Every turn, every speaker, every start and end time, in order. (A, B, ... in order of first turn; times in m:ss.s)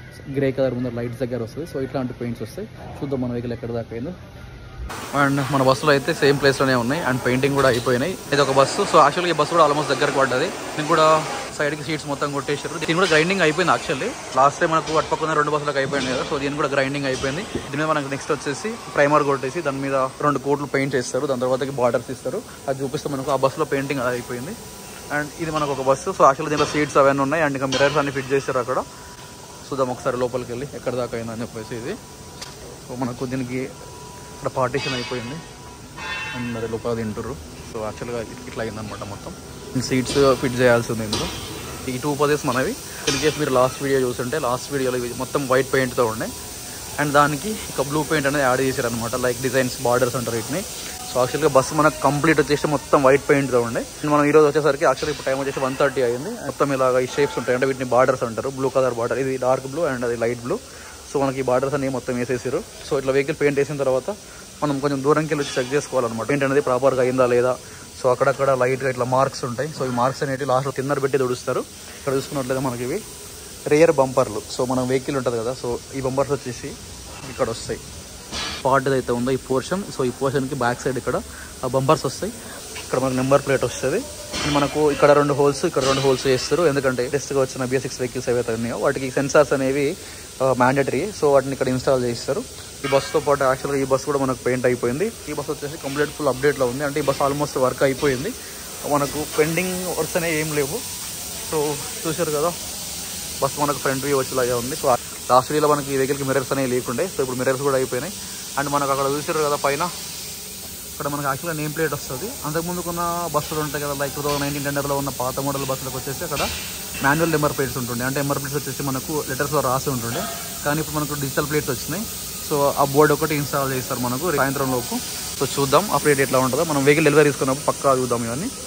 0:00.3-0:04.2 A
0:05.2-0:24.6 A
0:25.1-0:28.8 A
0:29.6-0:32.0 A
0:32.9-0:33.6 A
0:34.4-0:35.4 A
0:36.3-0:41.3 A
0:41.9-0:46.3 A
0:47.0-1:13.0 A
1:13.7-1:17.8 A
1:18.6-1:22.3 A
1:22.9-1:29.9 A
1:30.4-1:38.3 A
1:38.9-1:40.8 A
1:41.5-1:42.6 A
1:43.4-1:49.9 A
1:51.0-1:56.5 A
1:57.0-2:08.5 A